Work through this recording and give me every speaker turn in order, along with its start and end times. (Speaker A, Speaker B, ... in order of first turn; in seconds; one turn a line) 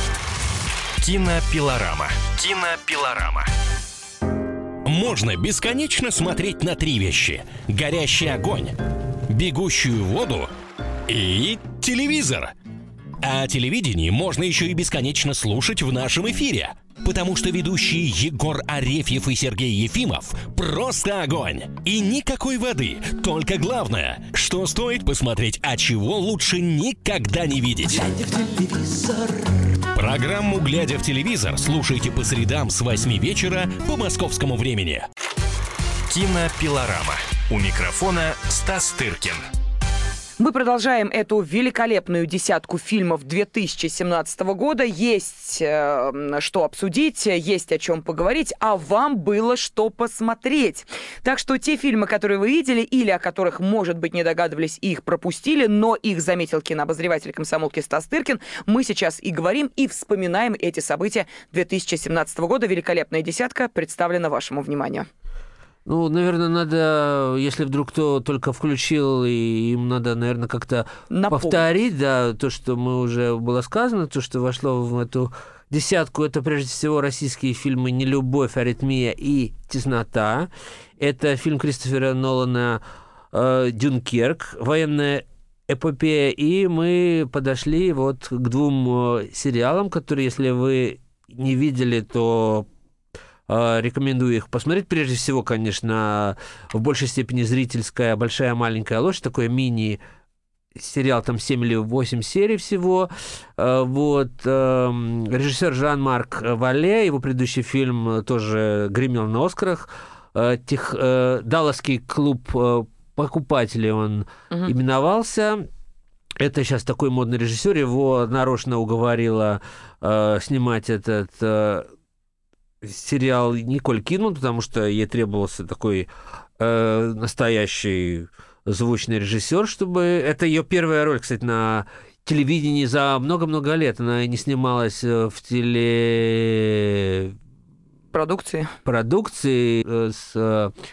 Speaker A: 1.0-3.4
Speaker A: 4.8-10.5
Speaker A: 11.1-12.5
Speaker A: 13.2-35.0
Speaker A: 36.1-39.3
Speaker B: 40.4-65.1
Speaker C: 65.8-92.7
Speaker B: 71.1-71.6
Speaker C: 93.5-100.0
Speaker C: 100.7-115.7
Speaker C: 116.4-121.9
Speaker C: 122.8-137.3
Speaker B: 138.1-138.8
Speaker C: 138.8-140.7